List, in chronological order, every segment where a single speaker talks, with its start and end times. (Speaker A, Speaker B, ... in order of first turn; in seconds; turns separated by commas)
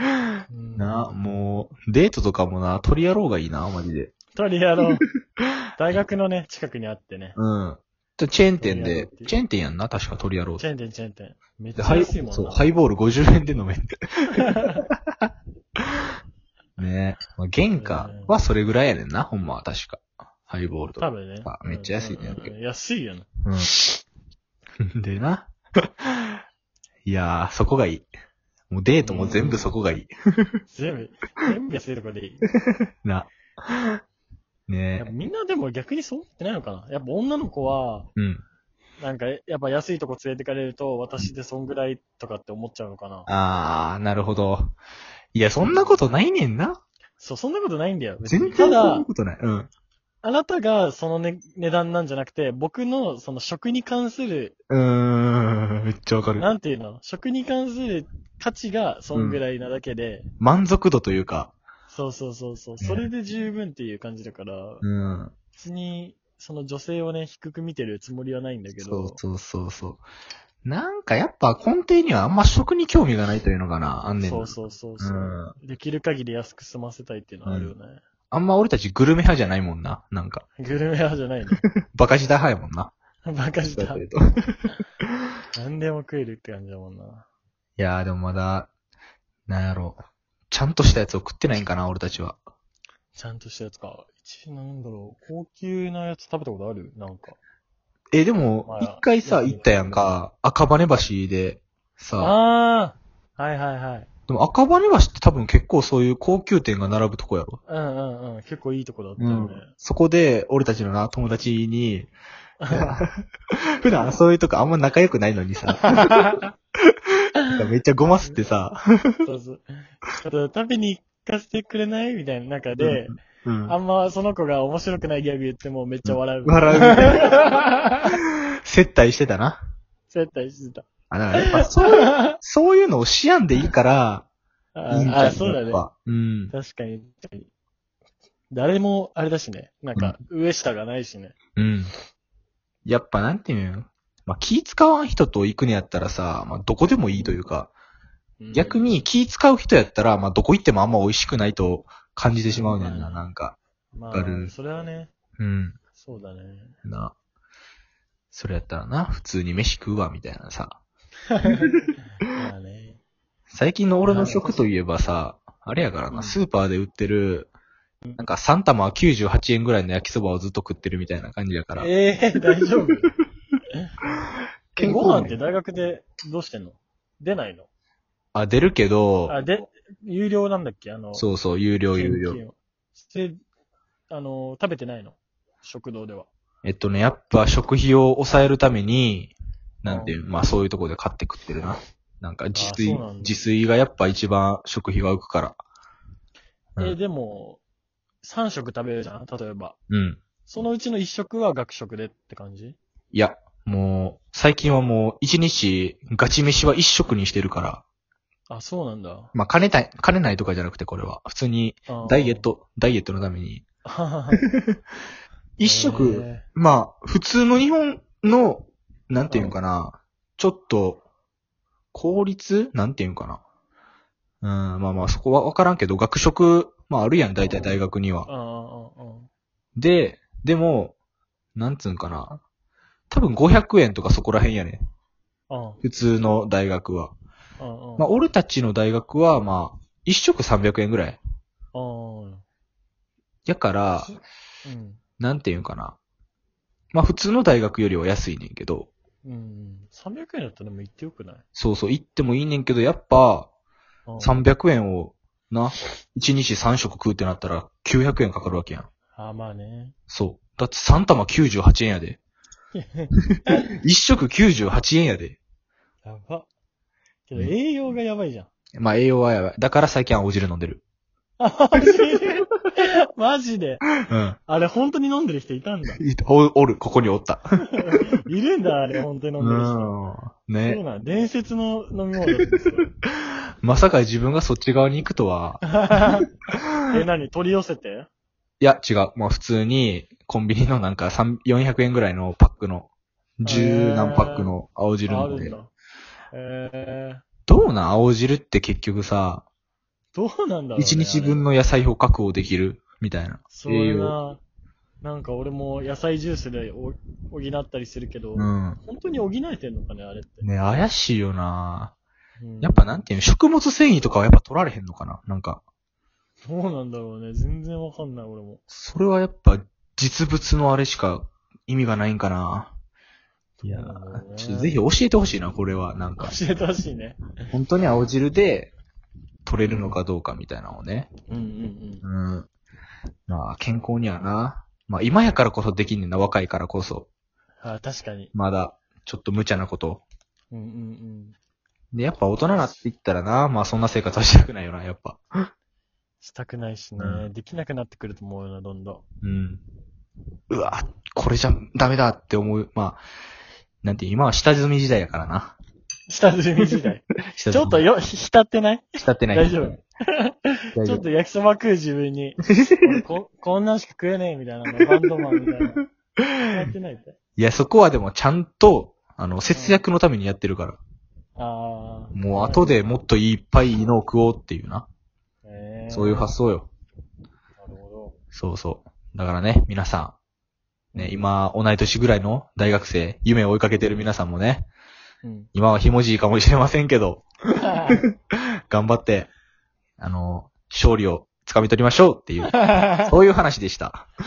Speaker A: 0.5-1.1, Speaker B: 0.8-4.1, Speaker A: 4.3-5.0, Speaker A: 5.8-7.4, Speaker B: 7.4-10.7, Speaker A: 8.6-9.3, Speaker A: 10.6-12.7, Speaker B: 11.8-14.5, Speaker A: 14.4-14.8, Speaker B: 16.8-22.5, Speaker A: 17.8-18.3, Speaker A: 21.0-23.5, Speaker B: 24.8-26.4, Speaker B: 27.1-28.1, Speaker B: 28.7-30.6, Speaker A: 29.0-29.7, Speaker A: 30.7-32.5, Speaker B: 33.0-34.0, Speaker B: 34.7-35.1, Speaker A: 35.0-38.1, Speaker B: 38.2-38.4, Speaker A: 39.0-43.3, Speaker B: 43.3-44.8, Speaker B: 45.3-46.8, Speaker A: 45.6-46.1, Speaker A: 47.2-49.1, Speaker B: 48.3-49.7, Speaker A: 50.2-54.6, Speaker B: 54.7-56.5, Speaker A: 56.4-60.2, Speaker B: 59.1-59.4, Speaker B: 60.4-61.5, Speaker A: 61.9-64.8, Speaker B: 64.8-65.3, Speaker A: 65.5-69.2, Speaker B: 68.8-70.0, Speaker B: 70.6-75.5, Speaker A: 74.2-78.0, Speaker B: 77.5-77.7, Speaker B: 78.3-80.5, Speaker A: 80.6-81.6, Speaker B: 81.8-82.9, Speaker A: 83.3-84.0, Speaker B: 83.7-84.6, Speaker A: 85.5-87.3, Speaker B: 87.8-88.7, Speaker B: 89.5-92.4, Speaker A: 93.2-97.4, Speaker B: 98.1-102.3, Speaker A: 98.7-100.1, Speaker A: 102.2-104.1, Speaker B: 104.3-107.6, Speaker A: 107.7-109.7, Speaker B: 109.2-112.1, Speaker A: 112.6-113.0, Speaker B: 112.7-116.3, Speaker A: 115.8-116.5, Speaker B: 117.5-119.2, Speaker A: 119.2-123.2, Speaker B: 122.8-123.8, Speaker A: 123.7-128.2, Speaker B: 126.1-127.5, Speaker B: 128.1-129.6, Speaker A: 130.1-132.4, Speaker B: 131.1-134.3, Speaker A: 134.8-135.8, Speaker B: 134.9-136.5, Speaker A: 136.5-137.5, Speaker A: 138.5-141.4, Speaker B: 141.6-141.9, Speaker B: 142.9-147.7, Speaker A: 148.4-148.8, Speaker B: 148.5-153.6, Speaker A: 152.5-153.3, Speaker A: 153.9-155.1, Speaker B: 154.1-154.5, Speaker B: 155.4-155.8, Speaker A: 156.0-156.8, Speaker B: 156.8-157.1, Speaker B: 158.3-160.8, Speaker A: 161.4-161.7, Speaker B: 161.4-161.9, Speaker A: 162.3-163.0, Speaker B: 163.5-167.5, Speaker A: 164.1-164.6, Speaker A: 166.1-166.4, Speaker B: 168.2-171.9, Speaker A: 171.8-173.2, Speaker B: 174.8-175.4, Speaker A: 174.8-177.7, Speaker B: 178.3-179.4, Speaker A: 179.3-181.3, Speaker B: 181.2-182.4, Speaker A: 181.9-183.4, Speaker A: 184.1-186.3, Speaker B: 186.6-195.6, Speaker A: 189.9-190.2, Speaker A: 192.6-193.4, Speaker A: 196.8-197.6, Speaker A: 198.2-199.8, Speaker B: 199.9-200.2, Speaker A: 200.5-202.8, Speaker B: 203.1-207.8, Speaker A: 208.5-209.3, Speaker B: 209.3-213.6, Speaker A: 211.9-212.5, Speaker A: 213.8-214.4, Speaker B: 215.6-221.0, Speaker A: 215.6-216.4, Speaker A: 219.3-219.6, Speaker B: 221.9-223.4, Speaker B: 224.4-228.3, Speaker A: 227.4-229.3, Speaker B: 229.8-230.9, Speaker B: 231.6-232.4, Speaker B: 233.1-234.8, Speaker A: 235.5-235.8, Speaker B: 235.8-237.1, Speaker A: 237.6-238.1, Speaker B: 238.0-241.2, Speaker A: 241.7-242.4, Speaker B: 243.5-244.1, Speaker A: 244.0-245.0, Speaker B: 245.2-246.0, Speaker B: 246.9-248.9, Speaker A: 249.2-251.4, Speaker B: 251.6-253.5, Speaker A: 254.1-254.4, Speaker B: 254.2-258.9, Speaker A: 259.1-259.9, Speaker B: 260.1-262.2, Speaker A: 262.7-263.7, Speaker B: 263.8-265.4, Speaker A: 266.1-266.5, Speaker A: 267.3-268.5, Speaker B: 268.8-270.8, Speaker A: 271.4-273.8, Speaker B: 274.1-274.4, Speaker A: 274.5-276.0, Speaker B: 276.0-278.1, Speaker A: 277.8-279.9, Speaker B: 279.4-280.8, Speaker A: 280.6-282.9, Speaker B: 283.6-285.7, Speaker A: 285.6-286.3, Speaker A: 286.9-288.1, Speaker B: 288.6-292.9, Speaker B: 293.4-295.6, Speaker A: 293.4-294.5, Speaker A: 295.1-295.7, Speaker A: 296.3-297.2, Speaker B: 297.5-299.4, Speaker A: 300.1-301.5, Speaker B: 300.8-304.2, Speaker A: 303.5-304.4, Speaker A: 305.0-310.4, Speaker B: 308.4-308.8, Speaker B: 310.4-311.9, Speaker A: 312.4-313.0, Speaker B: 312.6-315.6, Speaker A: 316.4-318.6, Speaker B: 318.7-322.7, Speaker A: 323.6-324.7, Speaker B: 323.6-326.4, Speaker A: 326.2-327.3, Speaker B: 327.5-328.7, Speaker B: 329.5-331.1, Speaker A: 329.6-330.0, Speaker A: 331.3-332.0, Speaker B: 332.0-332.5, Speaker B: 333.3-337.1, Speaker A: 337.6-338.3, Speaker B: 338.3-340.0, Speaker A: 340.5-341.4, Speaker B: 341.9-345.5, Speaker A: 346.2-349.0, Speaker B: 347.0-347.3, Speaker B: 349.2-349.6, Speaker B: 350.5-353.0, Speaker B: 353.8-355.6, Speaker A: 356.1-365.8, Speaker B: 357.3-357.9, Speaker B: 359.0-359.8, Speaker B: 360.8-361.1, Speaker B: 362.6-363.0, Speaker A: 366.5-367.2, Speaker B: 367.4-370.8, Speaker A: 369.5-369.8, Speaker A: 371.4-372.8, Speaker B: 372.1-374.9, Speaker A: 375.4-376.3, Speaker B: 375.9-376.7, Speaker A: 377.6-378.2, Speaker B: 378.3-380.2, Speaker A: 380.9-381.2, Speaker B: 381.0-384.7, Speaker A: 385.2-385.5, Speaker B: 385.6-387.3, Speaker A: 387.6-388.1, Speaker B: 388.7-389.3, Speaker B: 390.0-394.1, Speaker A: 392.5-393.1